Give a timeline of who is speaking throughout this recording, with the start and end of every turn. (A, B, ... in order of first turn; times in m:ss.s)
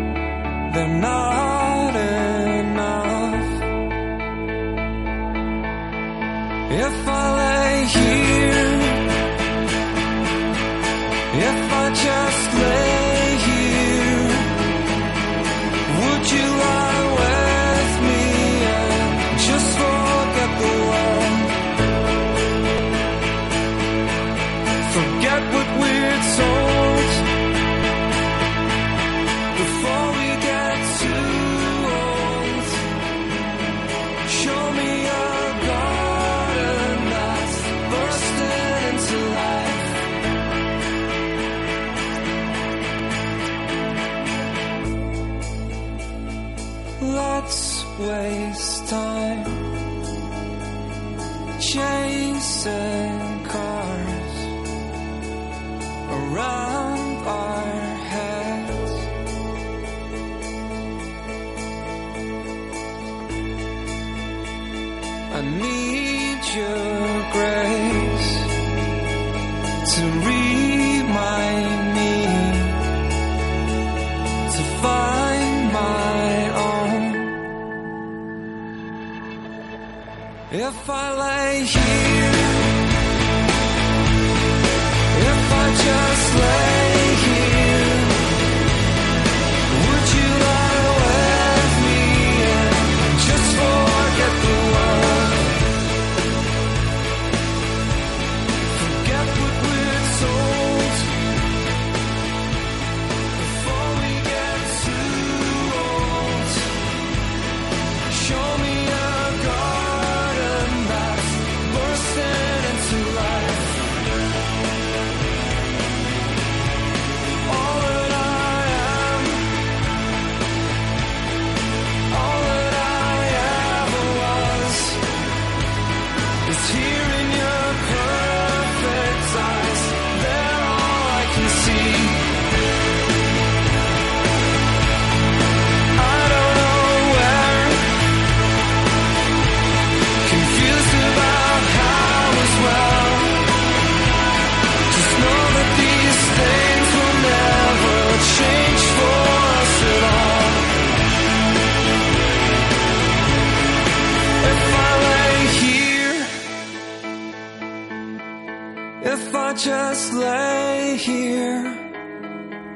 0:00.7-0:03.6 A
0:06.7-0:09.1 A
0:11.3-0:14.6 A
0:15.8-0:21.6 A
0:24.8-0:27.3 A
0:29.5-0:32.9 A
0:34.2-0:40.1 A
0:47.0-0:49.7 A
0:51.6-0:54.5 A
0:56.1-0:59.1 A
1:05.3-1:08.5 A
1:09.8-1:12.8 A
1:14.5-1:17.4 A
1:20.5-1:22.8 A
1:25.1-1:28.3 A
1:29.7-1:35.6 A
1:38.7-1:41.2 A
1:43.3-1:46.8 A
1:48.1-1:54.0 A
1:57.4-1:59.5 A
2:02.1-2:05.0 A
2:06.4-2:12.3 A
2:15.9-2:18.0 A
2:20.2-2:23.5 A
2:24.9-2:30.7 A
2:34.4-2:36.4 A
2:39.0-2:41.8 A